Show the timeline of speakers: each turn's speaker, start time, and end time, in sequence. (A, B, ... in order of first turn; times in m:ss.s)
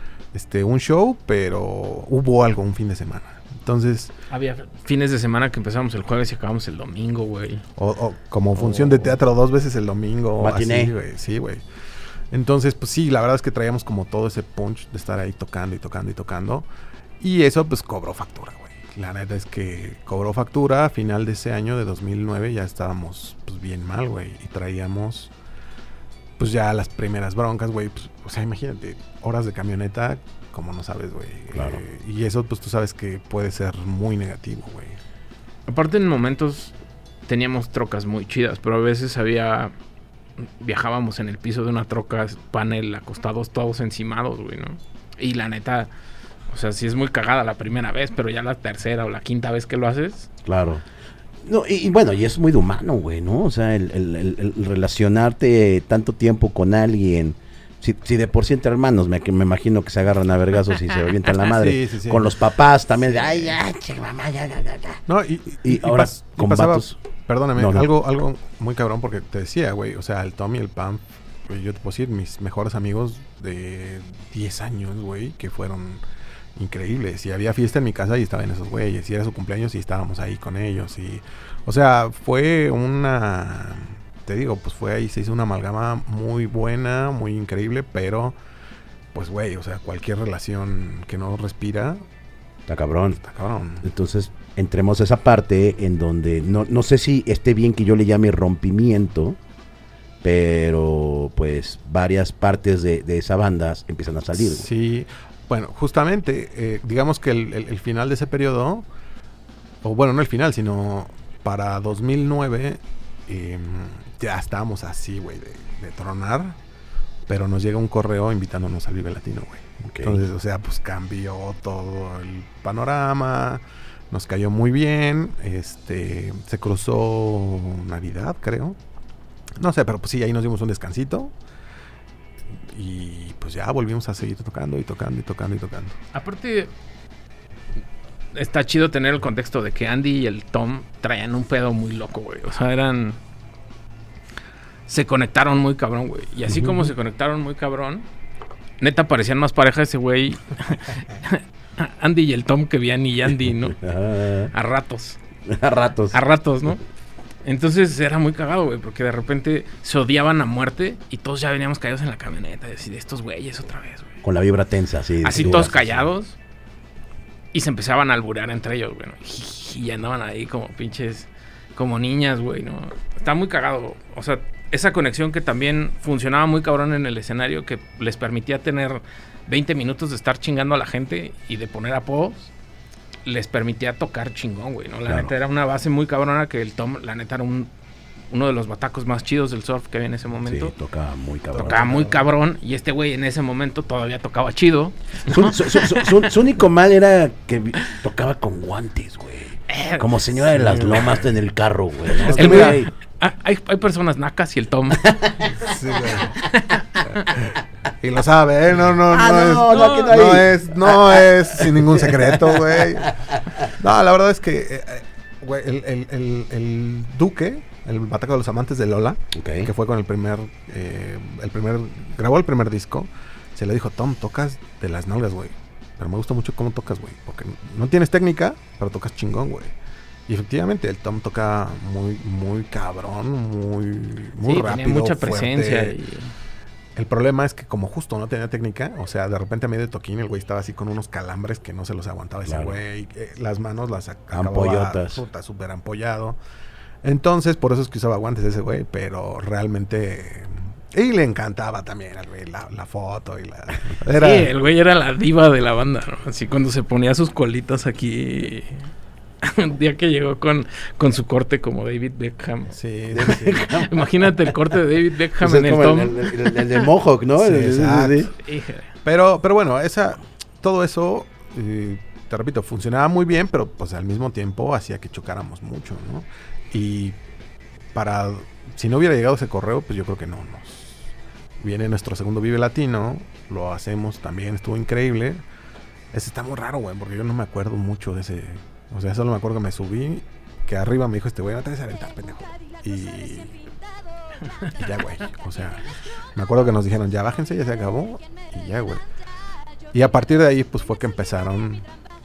0:00.3-0:04.1 A
0:04.3-0:07.6 B
0:07.8-0:11.6 A
0:08.6-0:08.9 B
0:10.4-0:10.9 C
0:12.3-0:16.6 A
0:17.2-0:25.3 A
0:26.4-0:35.0 A
0:31.5-0:31.8 C
0:35.7-0:36.7 B
0:37.3-0:39.7 B
0:40.4-0:45.9 B
0:46.5-0:50.3 B
0:50.4-0:50.8 C
0:51.4-1:05.0 C
1:01.4-1:02.4 A
1:03.2-1:03.5 A
1:05.1-1:16.0 A
1:05.6-1:07.0 C
1:07.5-1:07.9 C
1:16.6-1:28.3 A
1:29.1-1:32.0 A
1:32.7-1:33.2 C
1:33.2-1:33.8 A
1:33.8-1:39.4 C
1:40.2-1:44.7 C
1:44.3-1:48.8 A
1:49.8-1:56.6 A
1:57.3-2:08.8 A
1:59.8-2:00.2 C
2:09.6-2:11.3 A
2:12.6-2:16.0 A
2:16.1-2:16.7 B
2:18.3-2:23.2 B
2:24.9-2:28.1 B
2:26.5-2:26.9 C
2:28.8-2:33.8 B
2:33.4-2:34.5 C
2:34.5-2:35.2 B
2:35.4-2:36.2 C
2:36.1-2:36.8 B
2:37.4-2:44.2 B
2:44.2-2:46.0 C
2:45.2-2:46.4 B
2:47.5-3:02.5 B
3:03.2-3:07.7 B
3:08.3-3:10.7 B
3:10.4-3:12.1 C
3:11.6-3:12.1 A
3:11.6-3:16.3 B
3:15.2-3:22.9 C
3:19.7-3:20.2 B
3:20.5-3:21.3 A
3:22.2-3:22.8 A
3:22.3-3:25.4 B
3:25.2-3:25.5 C
3:25.6-3:26.4 A
3:26.4-3:27.5 B
3:27.3-3:49.7 A
3:29.0-3:33.7 C
3:29.7-3:30.1 B
3:39.3-3:39.7 C
3:50.3-3:56.0 A
3:54.4-3:56.3 B
3:57.0-4:06.4 A
4:02.5-4:02.8 C
4:04.3-4:05.2 C
4:07.0-4:14.5 A
4:14.1-4:18.9 B
4:19.4-4:22.7 B
4:22.7-4:23.8 A
4:23.1-4:24.6 C
4:23.2-4:26.8 B
4:25.4-4:28.3 C
4:27.4-4:28.3 A
4:28.4-4:28.9 B
4:29.0-4:37.2 A
4:37.9-4:45.4 A
4:46.1-4:53.6 A
4:54.7-4:59.0 A
4:59.9-5:01.8 A